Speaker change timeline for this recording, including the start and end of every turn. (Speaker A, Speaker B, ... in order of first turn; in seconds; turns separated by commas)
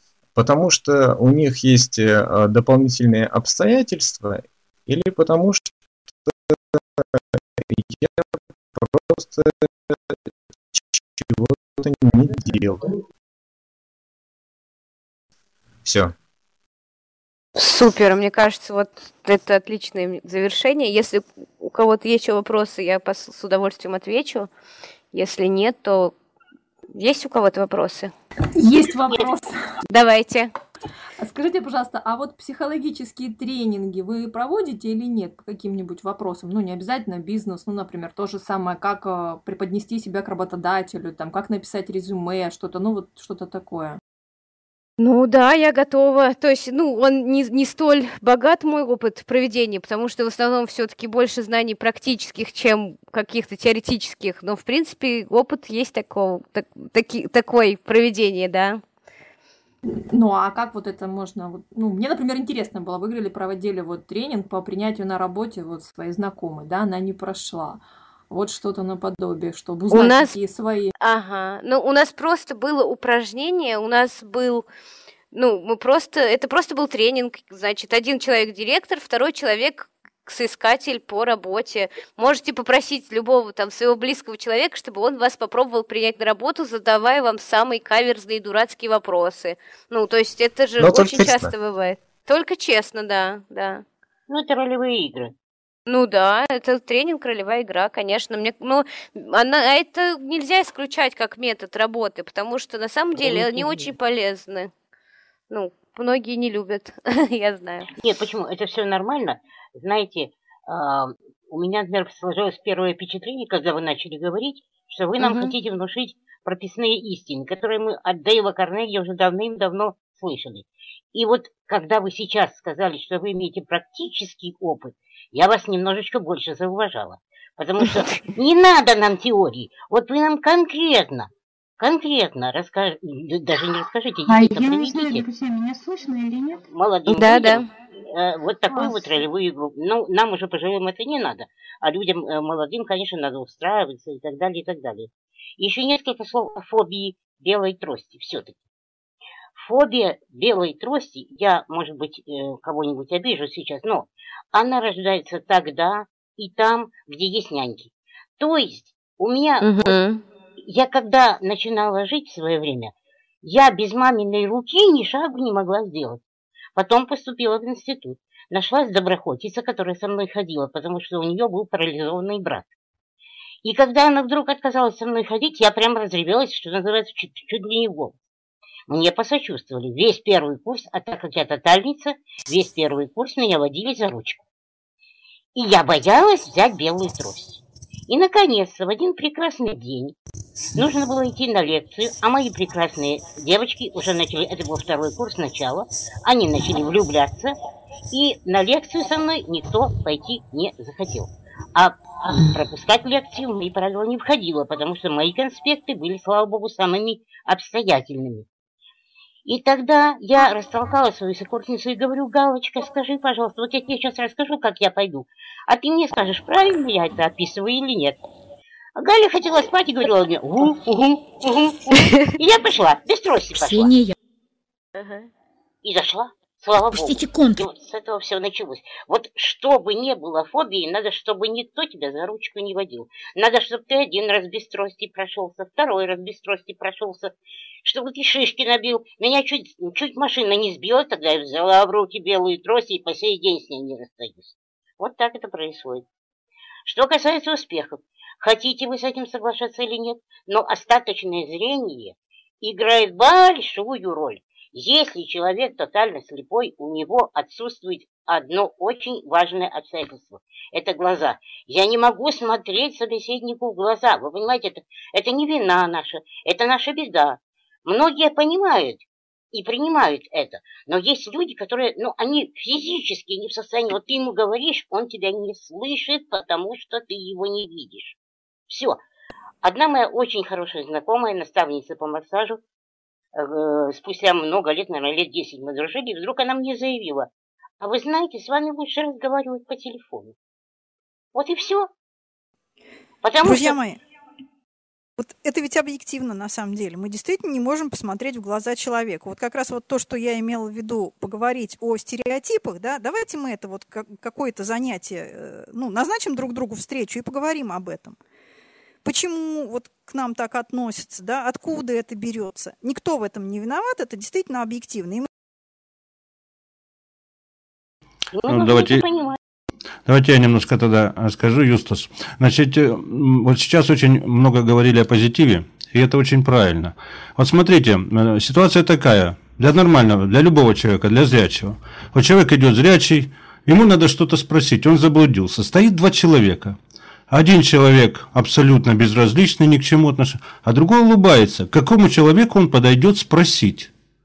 Speaker A: 0.3-5.7, Speaker A: 6.2-10.2, Speaker A: 10.7-12.8, Speaker A: 15.8-16.1, Speaker B: 17.6-24.5, Speaker B: 25.1-26.1, Speaker B: 26.9-28.1, Speaker C: 28.6-29.6, Speaker B: 29.9-30.5, Speaker C: 31.2-44.0, Speaker B: 45.0-58.8, Speaker C: 59.9-70.9, Speaker B: 69.9-70.3, Speaker B: 71.0-74.7, Speaker B: 75.3-93.8, Speaker A: 90.8-91.5, Speaker D: 94.3-95.3, Speaker B: 95.9-104.7, Speaker D: 103.2-103.9, Speaker B: 105.5-107.9, Speaker D: 108.0-135.3, Speaker B: 115.2-115.5, Speaker E: 134.2-136.6, Speaker D: 136.7-148.6, Speaker B: 137.1-137.7, Speaker E: 138.7-139.0, Speaker D: 149.6-160.0, Speaker B: 159.6-160.2, Speaker D: 160.7-162.9, Speaker D: 163.4-166.2, Speaker D: 166.8-172.7, Speaker D: 173.6-178.1, Speaker D: 178.9-184.4, Speaker D: 185.6-190.1, Speaker D: 190.8-197.5, Speaker D: 198.1-208.4, Speaker D: 209.4-218.2, Speaker D: 219.0-223.9, Speaker E: 223.5-224.1, Speaker D: 225.8-237.3, Speaker E: 226.9-227.6, Speaker D: 237.8-246.0, Speaker D: 246.8-278.1, Speaker D: 278.7-279.0, Speaker D: 279.6-282.6, Speaker D: 283.4-287.3, Speaker D: 287.8-290.3, Speaker D: 291.3-291.9, Speaker D: 293.2-293.8, Speaker F: 293.4-294.0, Speaker F: 295.2-308.2, Speaker F: 309.0-315.3, Speaker D: 318.3-319.4, Speaker G: 318.4-319.0, Speaker G: 320.1-336.8, Speaker G: 337.3-343.9